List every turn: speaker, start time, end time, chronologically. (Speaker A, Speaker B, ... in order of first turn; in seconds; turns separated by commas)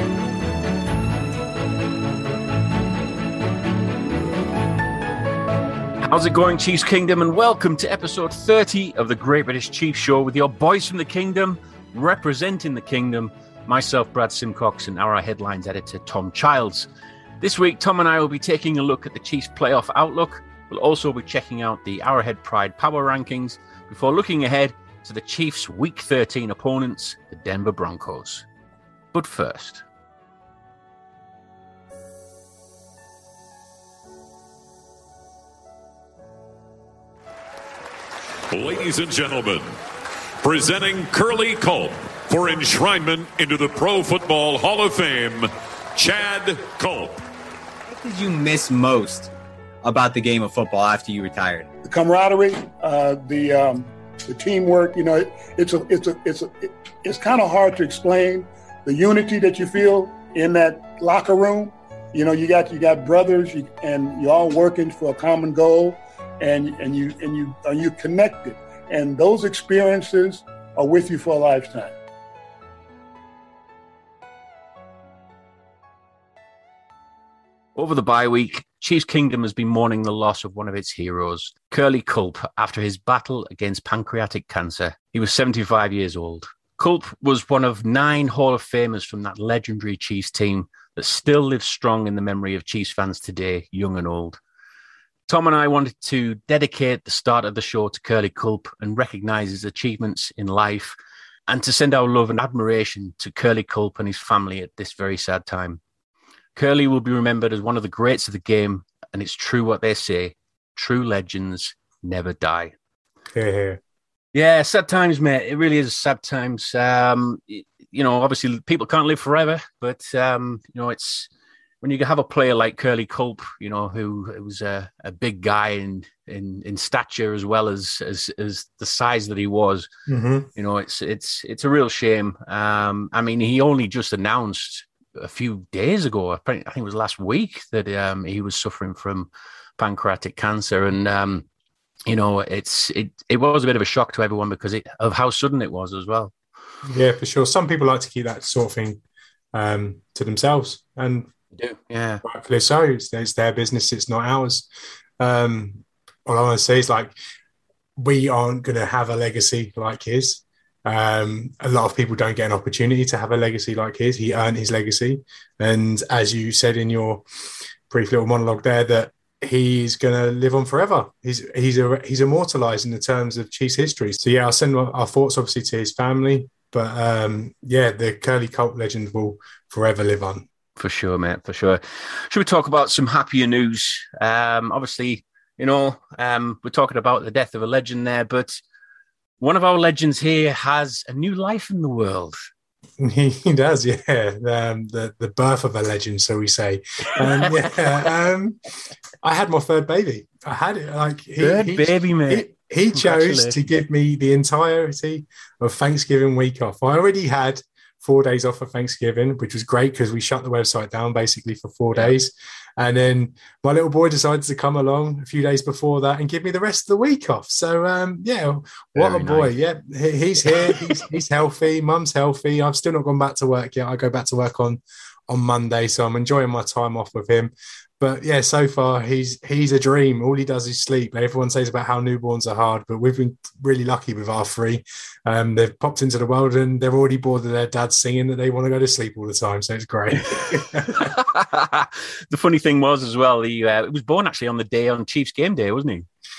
Speaker A: 6.0-16.9, Speaker A: 17.4-28.5, Speaker A: 29.1-29.9, Speaker B: 38.5-39.7, Speaker B: 40.4-47.2, Speaker C: 47.9-49.3, Speaker C: 49.8-51.7, Speaker D: 51.9-71.9, Speaker A: 77.8-94.4, Speaker A: 95.3-101.0, Speaker A: 101.5-105.8, Speaker A: 106.6-112.8, Speaker E: 113.3-113.8, Speaker A: 114.3-121.3, Speaker A: 121.8-129.9, Speaker E: 130.1-130.5, Speaker A: 130.6-141.5, Speaker A: 142.1-146.3, Speaker E: 146.8-149.0, Speaker E: 149.5-151.3, Speaker A: 151.6-152.2, Speaker E: 152.2-154.7, Speaker E: 155.2-157.1, Speaker E: 158.0-167.2, Speaker E: 167.9-180.5, Speaker A: 180.8-188.6, Speaker A: 189.4-192.4, Speaker E: 193.0-198.6, Speaker A: 197.2-197.7, Speaker E: 199.2-241.1, Speaker A: 201.4-203.7, Speaker A: 219.0-219.5, Speaker A: 240.9-246.1